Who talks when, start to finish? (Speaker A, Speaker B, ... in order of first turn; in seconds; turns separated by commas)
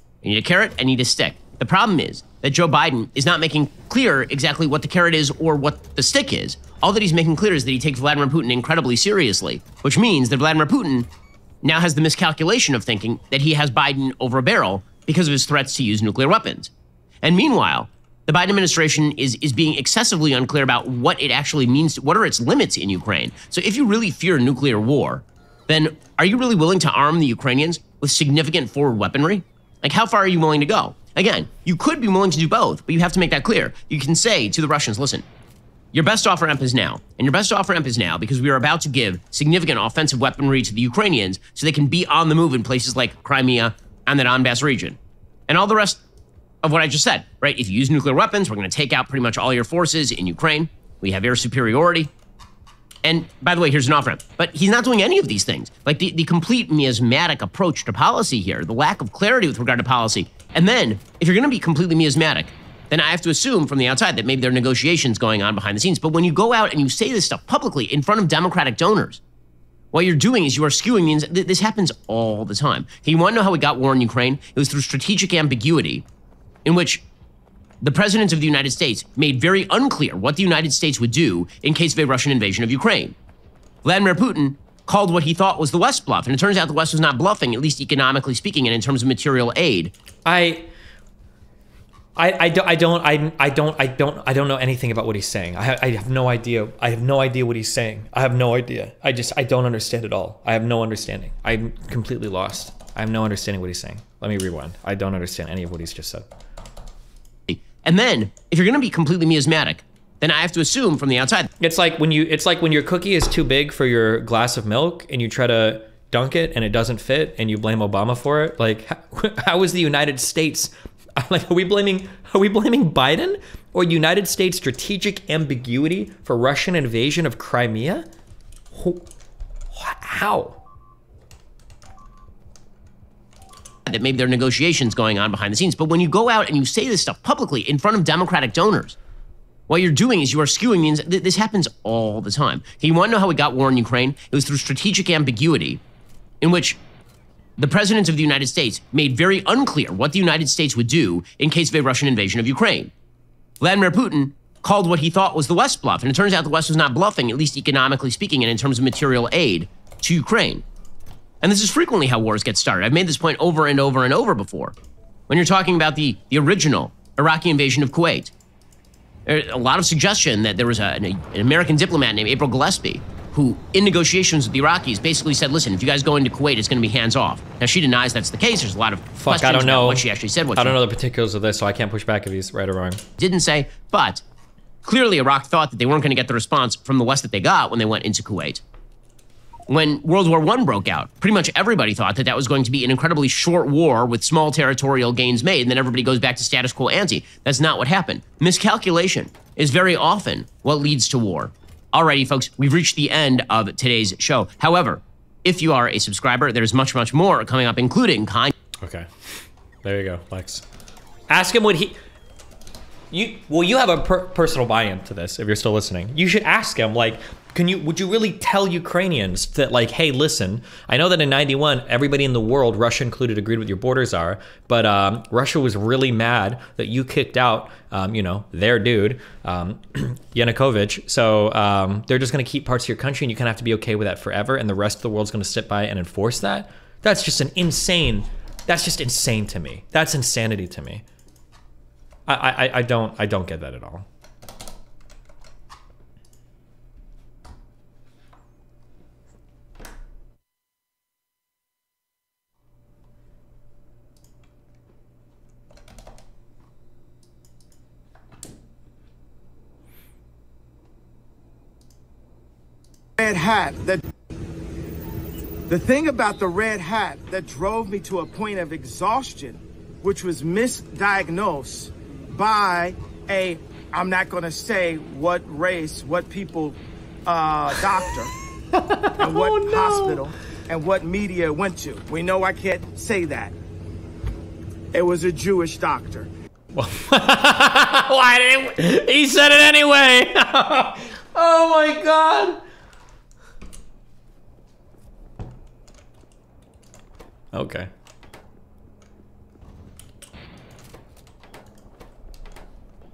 Speaker A: 0.2-11.1, Speaker A: 11.6-16.7, Speaker A: 17.2-35.3, Speaker A: 35.9-46.0, Speaker A: 46.6-52.1, Speaker A: 53.0-69.2, Speaker A: 69.9-76.1, Speaker A: 76.7-77.0, Speaker A: 77.8-83.2, Speaker A: 83.8-89.9, Speaker B: 90.3-90.7, Speaker B: 92.2-106.3, Speaker A: 107.5-111.5, Speaker B: 111.6-128.1, Speaker B: 128.7-129.1, Speaker B: 129.7-130.6, Speaker A: 133.9-139.0, Speaker A: 139.7-145.8, Speaker A: 146.4-146.8, Speaker A: 147.6-152.9, Speaker A: 153.6-160.7, Speaker A: 161.4-164.8, Speaker A: 165.3-168.3, Speaker A: 169.3-180.8, Speaker B: 179.2-180.1, Speaker B: 180.6-183.0, Speaker A: 183.2-184.2, Speaker A: 184.8-188.6, Speaker A: 189.7-208.5, Speaker B: 208.8-209.1, Speaker B: 209.8-210.7, Speaker B: 211.3-212.0, Speaker B: 213.1-241.0, Speaker B: 242.3-244.1, Speaker C: 263.2-264.0, Speaker C: 265.7-278.3, Speaker B: 278.7-280.2, Speaker C: 279.2-283.6, Speaker C: 284.9-286.3, Speaker B: 286.8-292.6, Speaker B: 297.5-297.9